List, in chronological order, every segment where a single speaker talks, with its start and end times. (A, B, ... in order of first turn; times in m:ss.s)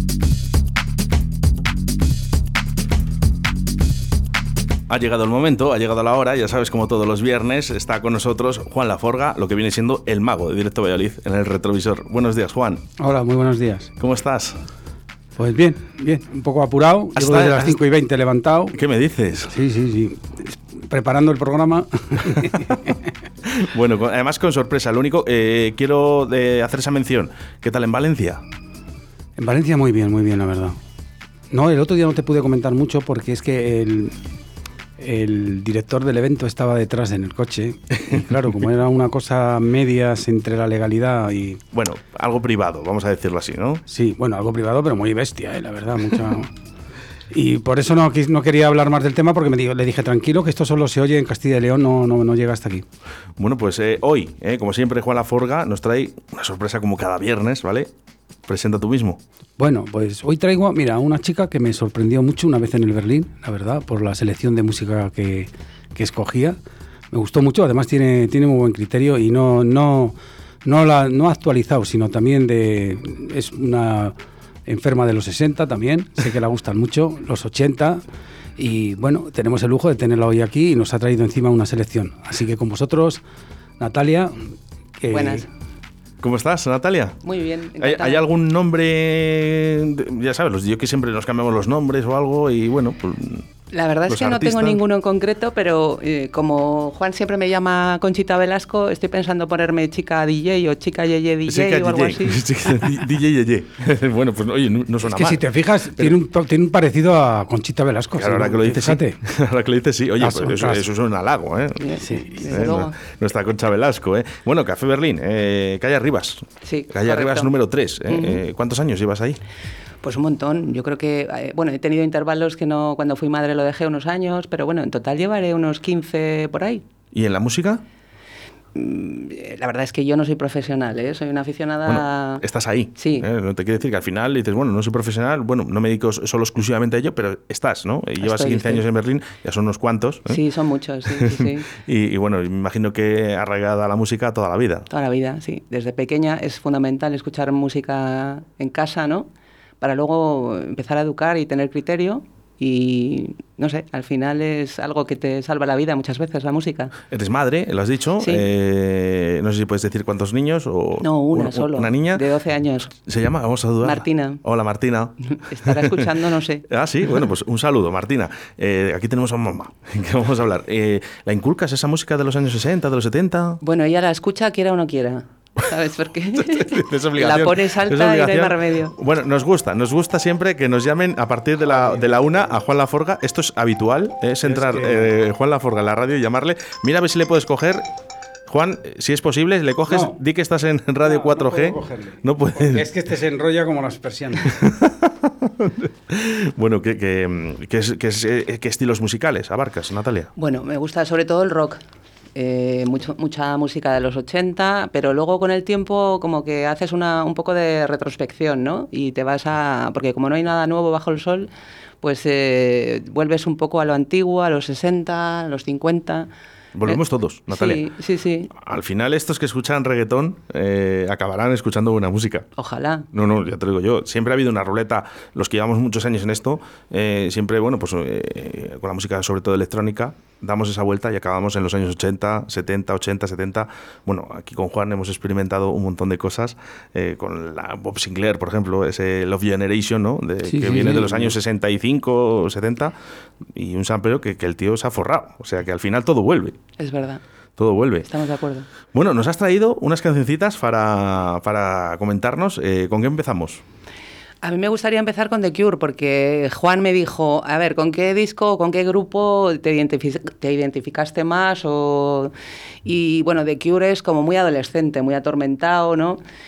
0:04.9-0:12.8 A
0:13.0-0:13.9 B
0:14.0-0:14.6 A
0:15.4-0:18.8 B
0:17.2-0:17.8 A
0:18.7-0:19.5 A
0:19.5-0:23.0 B
0:23.4-0:28.4 A
0:29.4-0:30.8 B
0:31.5-0:34.1 B
0:35.0-0:41.6 B
0:41.7-0:43.8 A
0:43.9-0:46.5 B
0:47.3-0:52.8 B
0:53.4-0:57.9 A
0:58.5-0:59.2 A
0:59.6-1:06.6 B
1:07.1-1:14.1 B
1:14.6-1:18.0 B
1:18.6-1:23.2 B
1:23.8-1:25.4 B
1:25.1-1:25.4 C
1:26.2-1:27.2 A
1:27.2-1:28.2 C
1:27.8-1:33.4 A
1:33.7-1:42.4 C
1:34.1-1:34.8 A
1:41.5-1:45.4 A
1:45.0-1:49.2 B
1:48.2-1:51.9 A
1:50.2-1:50.8 B
1:51.8-1:53.0 C
1:52.0-1:52.5 B
1:52.4-1:59.4 A
1:56.6-1:57.5 C
1:58.1-1:58.4 C
2:00.0-2:06.8 C
2:07.1-2:07.8 A
2:08.7-2:12.4 C
2:11.8-2:20.4 A
2:13.0-2:13.3 C
2:18.2-2:18.8 C
2:20.3-2:21.7 C
2:21.1-2:24.9 A
2:24.9-2:29.3 C
2:29.8-2:36.9 C
2:37.1-2:42.2 A
2:41.0-2:42.9 C
2:43.1-2:46.1 A
2:43.8-2:44.4 C
2:45.3-2:46.6 C
2:46.7-2:53.6 A
2:53.6-2:58.9 C
2:56.4-3:07.8 A
3:04.4-3:05.1 B
3:08.5-3:12.9 A
3:09.9-3:10.2 B
3:11.0-3:14.6 B
3:14.4-3:20.3 A
3:20.4-3:21.8 C
3:22.3-3:31.5 C
3:32.0-3:36.3 C
3:36.7-3:37.8 A
3:36.8-3:38.5 C
3:38.5-3:42.5 A
3:42.6-3:43.1 C
3:43.1-4:02.9 A
4:00.4-4:01.4 B
4:03.5-4:06.6 A
4:06.8-4:07.2 C
4:07.6-4:08.1 A
4:08.0-4:08.7 C
4:08.9-4:13.6 A
4:14.4-4:22.3 C
4:22.8-4:26.2 C